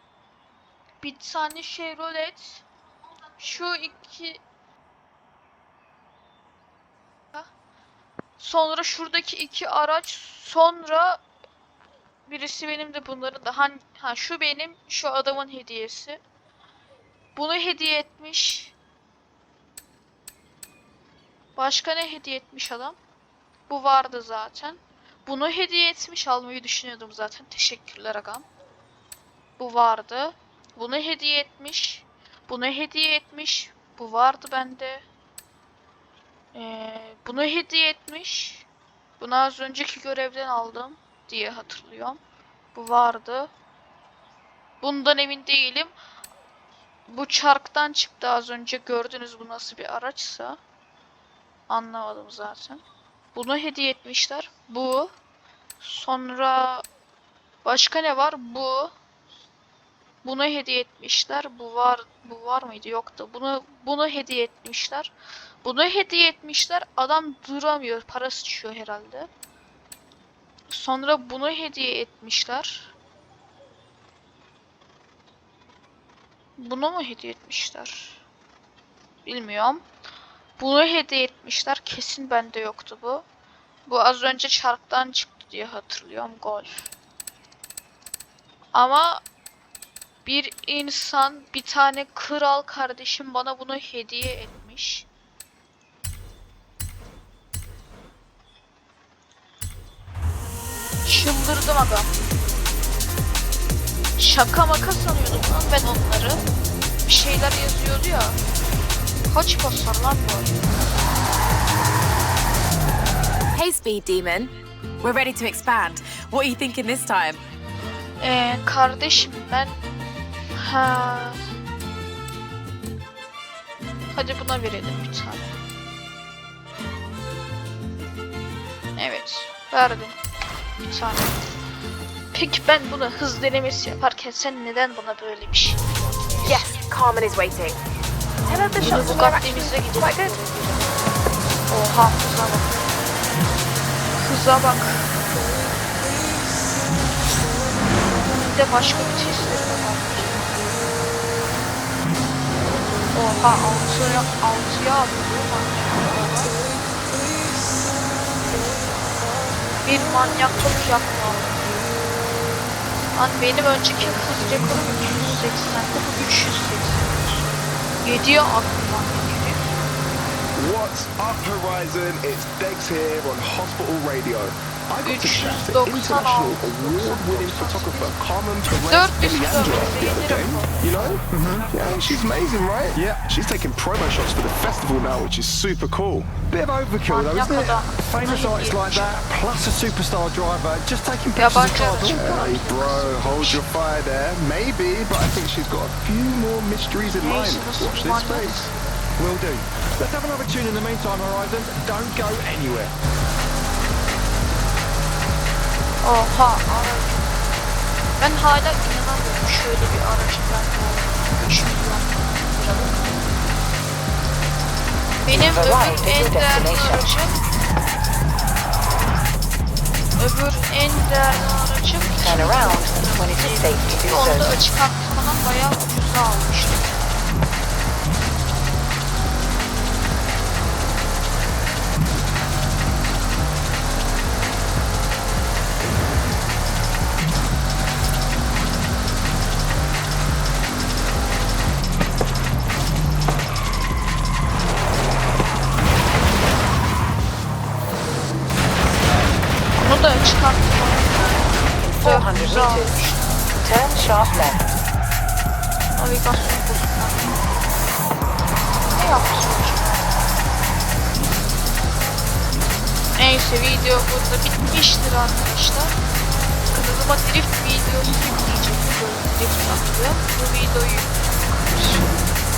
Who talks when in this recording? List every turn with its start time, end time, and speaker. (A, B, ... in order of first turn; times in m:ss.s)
0:01.0-0:04.4 A
0:08.4-0:11.2 A
0:12.3-0:16.2 A
0:17.3-0:18.8 A
0:21.6-0:23.0 A
0:23.7-0:28.5 A
0:29.6-0:35.0 A
0:36.5-0:38.7 A
0:39.2-0:42.2 A
0:42.7-0:43.5 A
0:44.8-0:45.9 A
0:47.1-0:50.6 A
0:51.7-0:52.8 A
0:53.3-0:55.1 A
0:55.8-0:56.8 A
0:57.6-0:59.0 A
1:00.2-1:09.3 A
1:10.7-1:12.9 A
1:16.6-1:18.2 A
1:19.2-1:19.8 A
1:20.6-1:23.2 A
1:23.9-1:26.9 A
1:28.7-1:29.2 A
1:30.2-1:35.1 A
1:41.0-1:42.1 A
1:44.2-1:46.4 A
1:47.0-1:48.4 A
1:49.3-1:50.5 A
1:53.5-1:57.4 B
1:58.2-1:59.8 A
2:00.6-2:01.4 A
2:04.1-2:05.6 A
2:09.0-2:10.2 A
2:10.8-2:11.4 A
2:12.3-2:15.8 A
2:16.4-2:17.8 B
2:18.5-2:20.4 B
2:18.8-2:21.1 A
2:21.7-2:22.8 A
2:24.2-2:25.1 A
2:28.3-2:30.6 A
2:33.1-2:36.6 A
2:39.8-2:41.7 A
2:43.2-2:47.0 A
2:48.0-2:49.7 A
2:50.6-3:06.4 C
2:55.0-2:58.2 A
2:58.8-3:01.0 A
3:01.3-3:01.7 D
3:03.0-3:03.2 D
3:06.5-3:12.2 D
3:07.1-3:09.3 A
3:11.4-3:13.6 A
3:12.0-3:18.7 C
3:17.2-3:19.0 A
3:19.2-3:22.9 D
3:26.0-3:27.4 A
3:28.2-3:33.0 A
3:35.2-3:37.4 A
3:35.3-3:37.1 E
3:40.2-3:47.0 A
3:42.2-3:44.5 E
4:09.8-4:13.0 A
4:11.7-4:14.6 E
4:16.0-4:17.4 A
4:18.9-4:20.0 A
4:23.2-4:26.0 A
4:26.7-4:32.2 A